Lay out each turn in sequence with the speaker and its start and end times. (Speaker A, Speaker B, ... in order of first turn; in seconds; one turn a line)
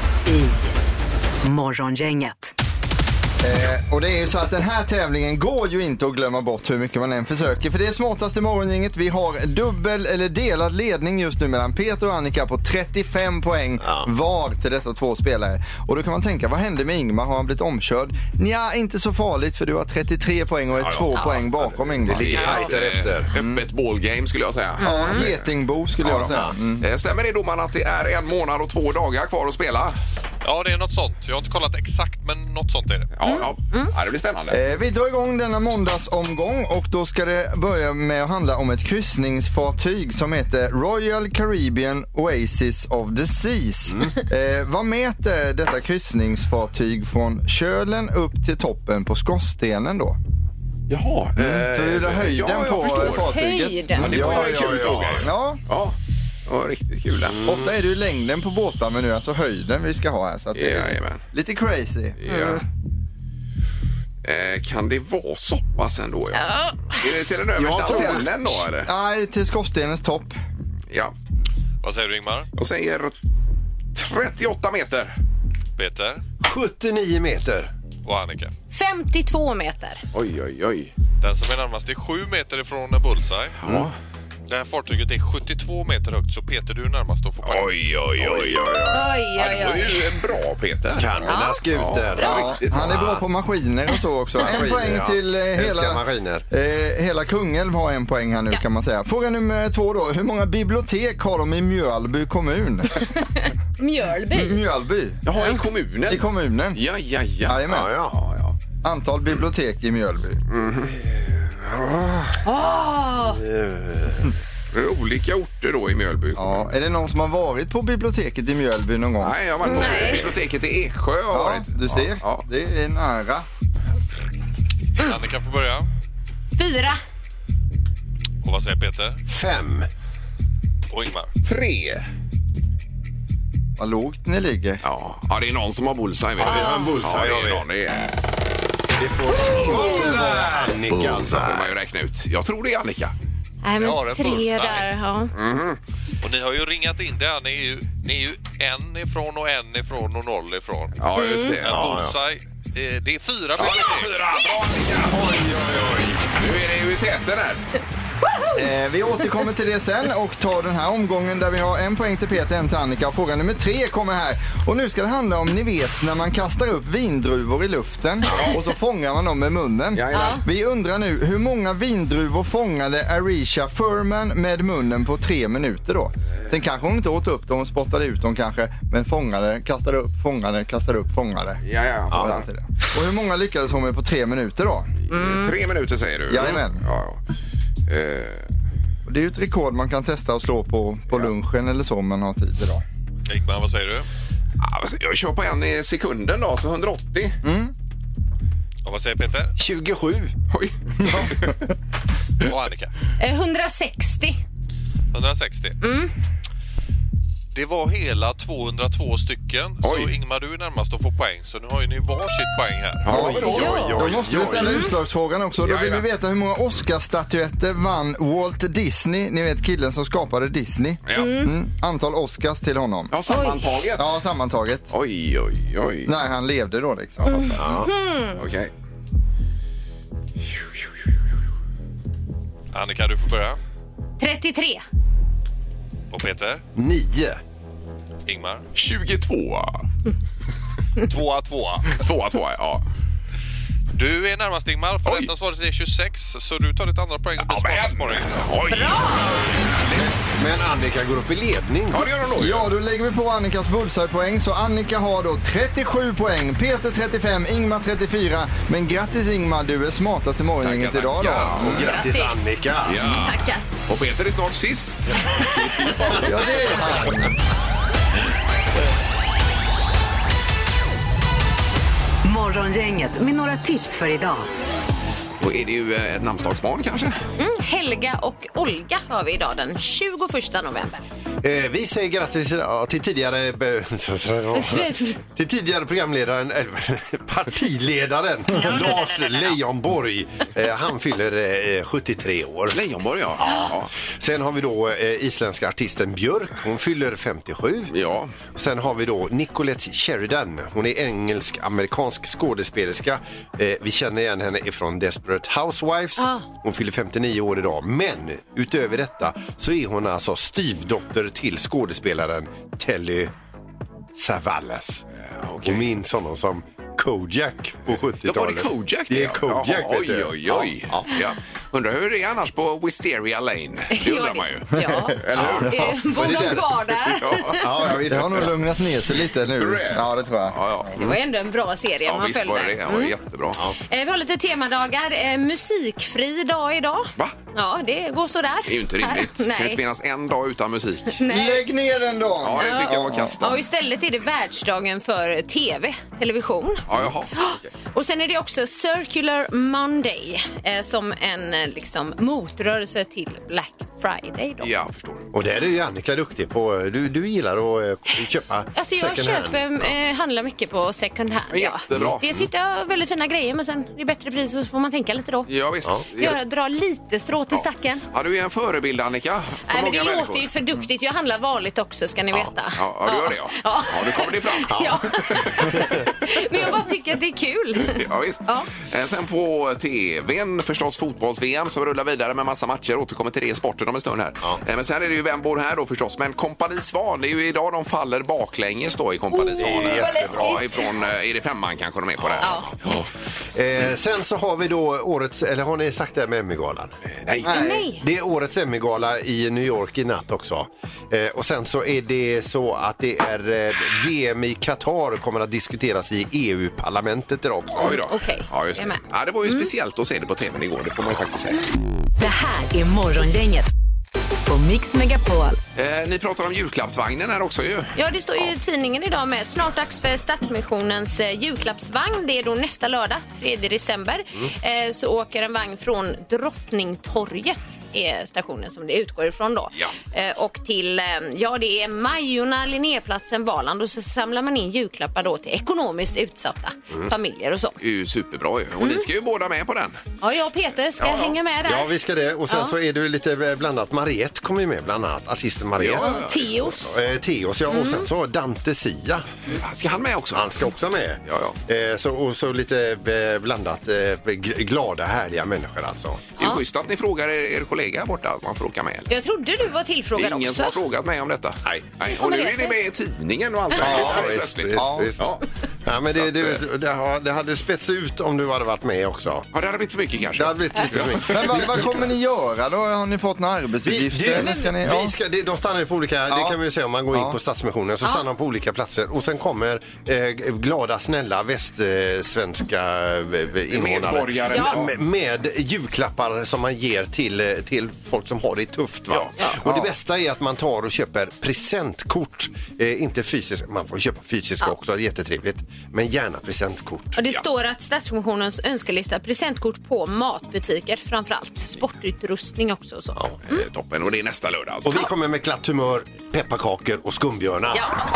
Speaker A: 0.2-0.8
Speaker A: 1.4-2.5
Speaker B: 3.4-22.7
Speaker C: 13.8-14.1
Speaker D: 20.8-21.1
Speaker C: 22.0-23.3
Speaker D: 22.1-25.4
Speaker B: 23.3-23.6
Speaker E: 24.8-25.2
Speaker B: 24.8-26.8
Speaker D: 26.0-29.9
Speaker F: 30.4-33.1
Speaker D: 33.1-34.6
Speaker E: 33.2-33.9
Speaker B: 34.5-50.2
Speaker D: 50.9-53.3
Speaker B: 51.4-55.6
Speaker E: 53.1-54.1
Speaker D: 54.0-56.0
Speaker C: 54.0-55.3
Speaker D: 56.5-57.5
Speaker C: 57.3-57.6
Speaker B: 57.4-62.2
Speaker D: 60.5-61.2
Speaker D: 62.2-62.6
Speaker E: 62.3-62.6
Speaker D: 64.2-68.9
Speaker E: 66.3-67.0
Speaker C: 67.5-68.6
Speaker B: 67.9-68.2
Speaker B: 68.8-70.4
Speaker F: 71.8-72.5
Speaker D: 72.6-73.1
Speaker D: 73.9-75.2
Speaker F: 75.8-76.2
Speaker C: 76.4-77.7
Speaker F: 78.0-78.5
Speaker E: 78.7-80.0
Speaker D: 80.1-80.9
Speaker F: 81.2-83.6
Speaker D: 83.6-83.9
Speaker C: 83.7-83.9
Speaker F: 84.5-87.7
Speaker D: 87.4-93.2
Speaker E: 88.9-90.2
Speaker C: 90.9-92.9
Speaker E: 91.2-91.6
Speaker B: 92.2-103.0
Speaker C: 94.4-96.5
Speaker E: 103.2-104.6
Speaker B: 104.3-105.2
Speaker D: 105.2-108.5
Speaker B: 106.1-106.8
Speaker B: 107.4-107.9
Speaker C: 107.7-108.1
Speaker B: 108.8-110.4
Speaker D: 110.5-111.0
Speaker C: 111.0-112.4
Speaker E: 112.4-113.4
Speaker C: 113.4-114.3
Speaker D: 114.7-116.6
Speaker B: 116.3-119.3
Speaker D: 119.2-122.4
Speaker E: 119.6-120.2
Speaker B: 121.3-123.5
Speaker F: 125.0-125.9
Speaker E: 126.5-127.0
Speaker F: 128.4-129.2
Speaker C: 129.3-129.9
Speaker F: 130.9-131.3
Speaker D: 131.4-132.1
Speaker B: 133.8-134.8
Speaker D: 134.8-138.1
Speaker C: 136.4-137.6
Speaker E: 136.4-136.9
Speaker C: 139.0-141.7
Speaker D: 140.9-143.1
Speaker E: 143.6-145.3
Speaker F: 143.8-144.9
Speaker D: 145.3-145.8
Speaker F: 146.2-150.9
Speaker D: 151.0-151.9
Speaker E: 151.2-151.6
Speaker F: 151.6-154.1
Speaker C: 151.7-152.2
Speaker D: 153.5-155.5
Speaker C: 155.1-156.3
Speaker D: 156.3-157.7
Speaker B: 158.5-184.9
Speaker D: 169.9-170.4
Speaker E: 170.1-170.4
Speaker D: 181.6-182.4
Speaker E: 185.1-185.5
Speaker D: 185.1-187.2
Speaker B: 186.3-186.8
Speaker D: 187.9-188.5
Speaker B: 189.0-192.8
Speaker F: 193.3-194.1
Speaker D: 194.6-197.4
Speaker B: 197.4-197.7
Speaker F: 198.8-199.5
Speaker C: 199.6-200.3
Speaker D: 200.5-201.5
Speaker F: 202.4-202.9
Speaker E: 203.2-204.4
Speaker F: 205.1-205.8
Speaker E: 205.8-206.1
Speaker F: 207.5-213.1
Speaker D: 209.8-210.1
Speaker D: 213.0-214.6
Speaker C: 213.1-214.9
Speaker B: 213.1-223.1
Speaker E: 213.5-213.9
Speaker E: 214.6-214.9
Speaker D: 215.6-216.0
Speaker D: 221.1-221.3
Speaker E: 221.2-221.5
Speaker D: 223.1-224.1
Speaker E: 223.3-223.8
Speaker B: 223.9-224.9
Speaker D: 224.9-226.1
Speaker B: 226.1-227.6
Speaker E: 227.4-228.4
Speaker C: 227.6-227.9
Speaker D: 228.3-228.7
Speaker F: 232.7-233.6
Speaker E: 234.2-234.8
Speaker F: 236.1-236.6
Speaker C: 236.8-237.4
Speaker F: 238.2-238.7
Speaker D: 238.7-239.8
Speaker F: 241.0-241.9
Speaker D: 241.9-242.8
Speaker F: 243.9-248.6
Speaker D: 245.0-245.3
Speaker D: 247.4-250.3
Speaker E: 248.7-249.5
Speaker C: 249.9-252.0
Speaker D: 251.9-252.7
Speaker B: 252.4-261.8
Speaker D: 260.6-262.0
Speaker C: 261.5-263.2
Speaker E: 261.8-263.6
Speaker D: 262.8-266.7
Speaker B: 266.1-267.3
Speaker A: 272.2-274.5
Speaker D: 275.4-277.2
Speaker E: 277.4-281.0
Speaker C: 281.4-292.8
Speaker E: 284.5-285.2
Speaker D: 292.7-293.9
Speaker C: 293.4-297.9
Speaker D: 297.9-298.3
Speaker C: 298.5-313.3
Speaker E: 306.2-306.4
Speaker C: 314.1-315.0
Speaker D: 315.3-315.9
Speaker C: 315.6-321.1
Speaker D: 318.2-326.0
Speaker E: 323.9-327.6
Speaker C: 325.3-328.5
Speaker D: 327.2-327.9
Speaker B: 328.1-330.9
Speaker D: 329.6-331.0
Speaker E: 330.9-333.1
Speaker D: 332.1-333.6
Speaker E: 333.8-339.8
Speaker D: 338.7-341.2
Speaker E: 341.1-341.6
Speaker B: 341.3-343.4
Speaker D: 342.4-343.6
Speaker E: 342.6-354.7
Speaker D: 346.9-347.7
Speaker D: 354.6-355.3
Speaker C: 355.3-359.9
Speaker E: 358.7-365.5
Speaker D: 361.5-362.2
Speaker D: 365.5-366.4
Speaker E: 366.2-368.0
Speaker D: 367.5-370.5
Speaker E: 369.7-378.7
Speaker D: 372.7-376.0
Speaker D: 377.9-393.1
Speaker C: 389.6-390.7
Speaker E: 392.4-392.7
Speaker C: 393.5-396.9
Speaker D: 397.2-397.5
Speaker B: 397.4-397.9
Speaker E: 397.4-398.0
Speaker C: 398.0-407.9
Speaker D: 407.8-411.6
Speaker E: 407.8-409.7
Speaker A: 412.2-413.7
Speaker A: 414.4-415.6
Speaker D: 415.8-418.4
Speaker E: 417.9-437.8
Speaker D: 437.8-440.0
Speaker E: 438.8-439.1
Speaker E: 440.2-441.9
Speaker D: 441.0-441.4
Speaker C: 441.6-446.2
Speaker E: 442.5-442.7
Speaker D: 445.8-446.9
Speaker E: 446.0-446.9
Speaker C: 446.8-449.2
Speaker E: 447.7-448.1
Speaker D: 449.5-450.5
Speaker C: 450.3-456.3
Speaker D: 451.2-451.6
Speaker D: 456.4-459.1
Speaker E: 459.1-460.8
Speaker D: 460.1-465.4
Speaker E: 462.0-462.8
Speaker C: 463.8-465.3
Speaker B: 463.8-465.1
Speaker C: 465.8-469.5
Speaker D: 466.1-466.6
Speaker D: 469.5-471.6
Speaker C: 470.4-471.9
Speaker B: 471.2-475.1
Speaker C: 473.8-497.2
Speaker E: 474.4-474.7
Speaker B: 476.3-476.6
Speaker B: 477.1-477.4
Speaker D: 483.7-484.9
Speaker E: 484.5-484.8
Speaker B: 489.6-489.9
Speaker E: 497.1-503.6
Speaker D: 503.5-505.1
Speaker C: 504.8-507.9
Speaker E: 507.7-508.0